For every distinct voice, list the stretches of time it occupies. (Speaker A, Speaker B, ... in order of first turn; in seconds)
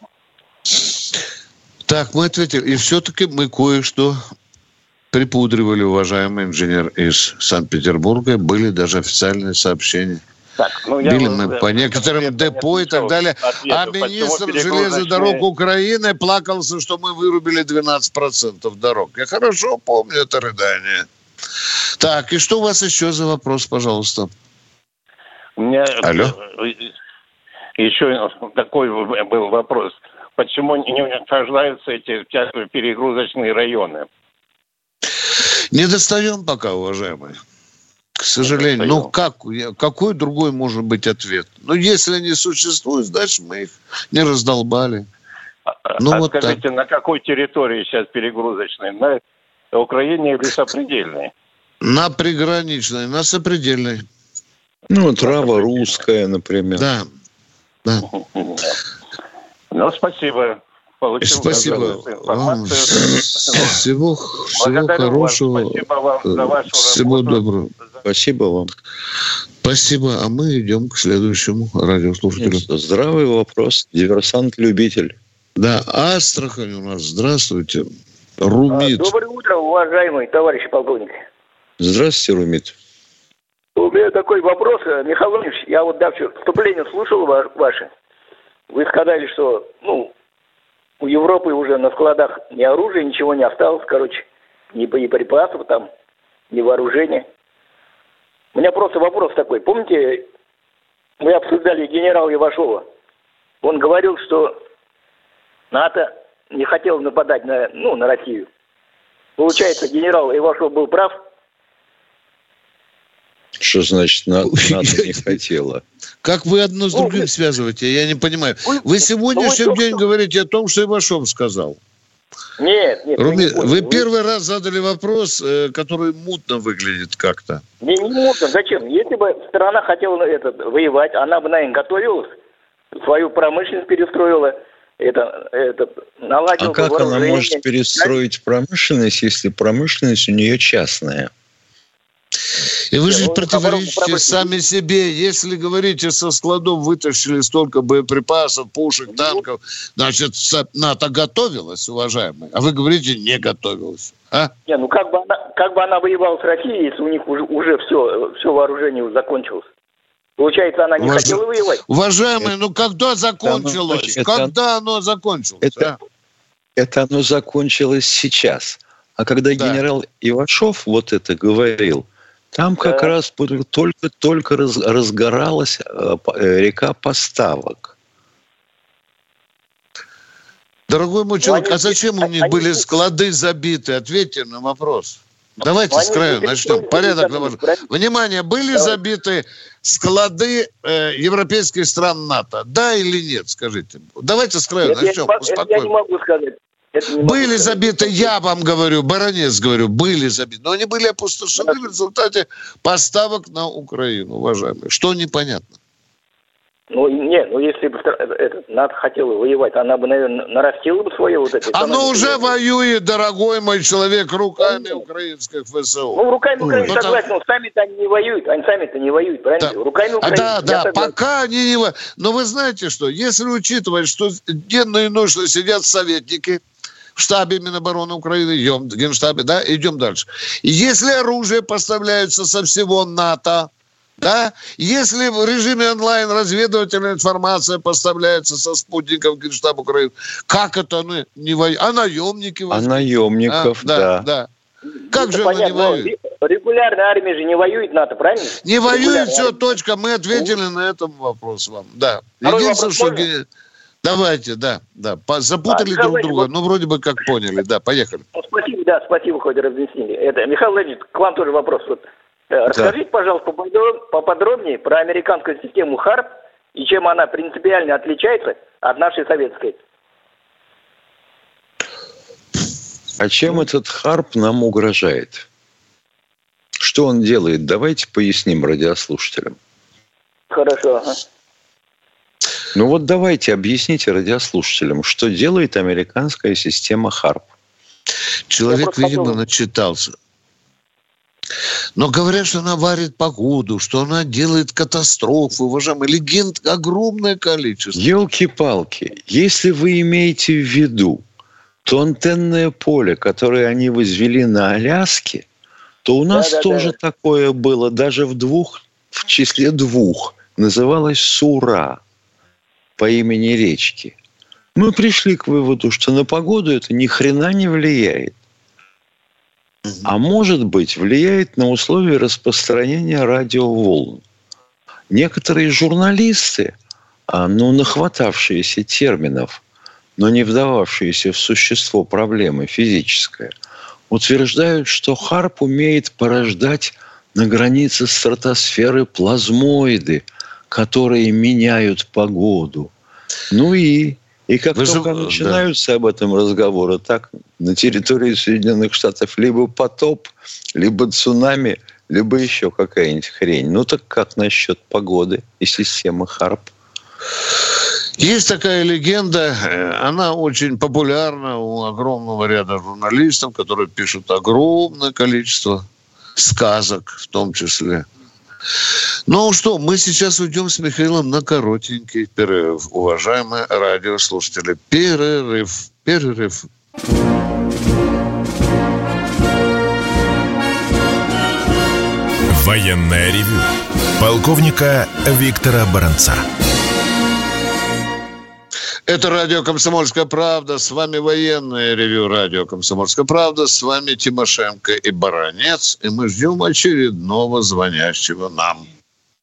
Speaker A: 1.9-4.2, 5.1-10.2, 11.0-21.1, 22.0-24.3, 26.0-26.3, 35.7-37.4, 38.2-45.1, 46.0-46.6, 51.8-54.0, 56.8-57.1, 61.2-67.7, 69.6-72.6, 75.6-77.9, 78.4-79.1, 114.5-115.4, 116.2-121.8, 123.2-127.6, 142.9-154.5, 161.0-166.0, 180.9-195.9, 197.2-205.8, 211.7-217.2, 219.6-226.6, 227.2-233.7, 234.2-244.5, 245.1-246.1, 248.6-253.4, 254.0-258.2, 288.5-290.1, 292.0-298.1, 344.8-345.6, 358.2-365.8, 366.4-368.1, 369.3-376.7, 389.1-398.9
Speaker B: 10.6-15.4, 25.6-26.9, 27.8-34.1, 38.4-39.1, 45.9-49.2, 49.7-51.3, 55.1-56.0, 58.1-58.7, 59.7-63.9, 64.5-67.5
Speaker C: 54.9-56.9, 61.5-62.0, 68.0-68.7, 72.4-75.2, 81.8-82.8, 113.6-115.8, 136.6-141.3, 163.4-164.5, 165.6-165.9, 166.8-177.9, 242.7-244.3, 273.2-275.5, 276.8-279.6, 282.7-287.5, 297.9-301.2, 301.9-305.4, 306.1-312.0, 313.0-314.2, 314.8-318.4, 320.0-324.2, 325.1-326.7, 327.3-329.6, 330.2-333.5, 334.1-342.9, 343.5-356.7
Speaker D: 78.7-81.2, 83.8-87.9, 88.7-90.1, 91.0-95.9, 96.5-97.2, 98.5-100.3, 101.2-102.8, 103.6-104.5, 105.7-108.5, 109.4-111.1, 116.9-117.3, 118.7-120.0, 122.6-124.1, 127.8-132.3, 133.0-138.2, 143.1-144.6, 149.1-149.4, 154.7-159.7, 160.4-161.8, 172.8-173.1, 181.4-182.9, 185.9-187.9, 188.7-189.0, 194.8-198.3, 201.6-201.9, 206.9-212.6, 214.6-215.0, 216.1-221.2, 245.1-249.8, 252.4-253.3, 255.7-256.5, 258.4-269.8, 280.5-281.2, 288.7-289.4, 306.3-306.9
Speaker E: 382.5-383.7, 384.2-386.4